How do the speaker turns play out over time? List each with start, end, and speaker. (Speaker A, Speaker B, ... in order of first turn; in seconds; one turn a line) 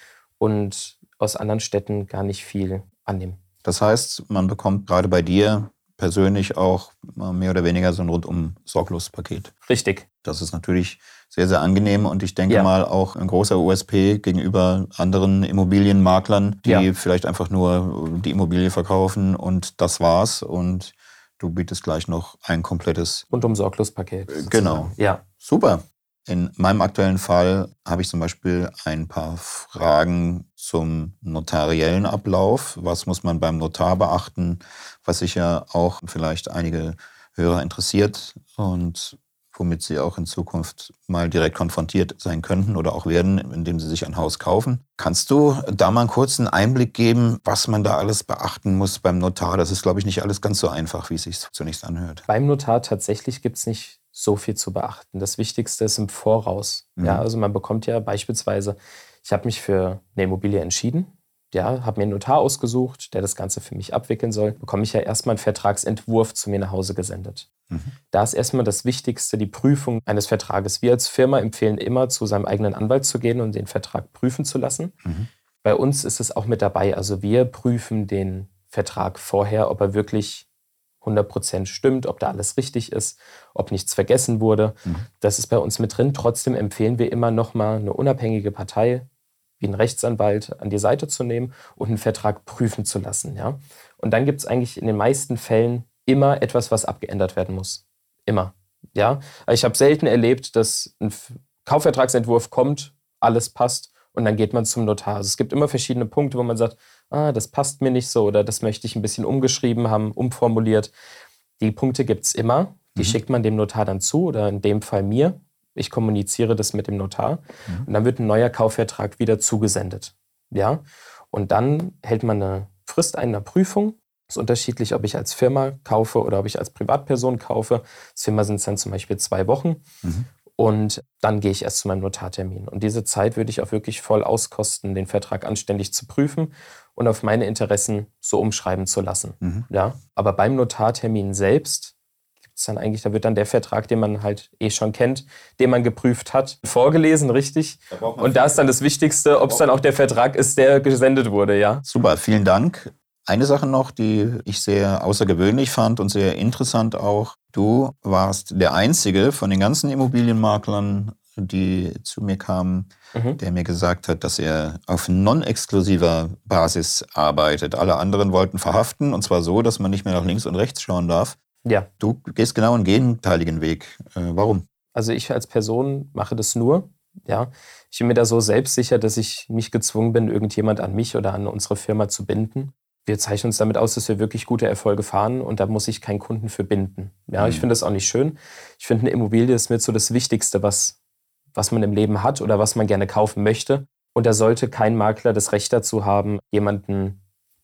Speaker A: 0.4-3.4
Speaker B: 3.6-9.5
Speaker A: 9.6-10.1
Speaker B: 10.2-23.2
Speaker A: 23.3-25.2
Speaker B: 24.3-52.2
Speaker A: 52.3-67.5
Speaker B: 57.0-57.2
Speaker A: 68.1-74.9
Speaker A: 75.6-80.5
Speaker A: 81.0-89.1
Speaker A: 89.6-110.9
Speaker A: 111.6-129.8
Speaker A: 130.6-141.9
Speaker A: 142.5-151.8
Speaker B: 147.9-148.6
Speaker B: 151.8-171.4
Speaker A: 163.1-163.4
Speaker A: 171.6-171.9
Speaker B: 172.0-174.6
Speaker A: 174.9-191.0
Speaker B: 187.3-187.7
Speaker A: 191.5-197.2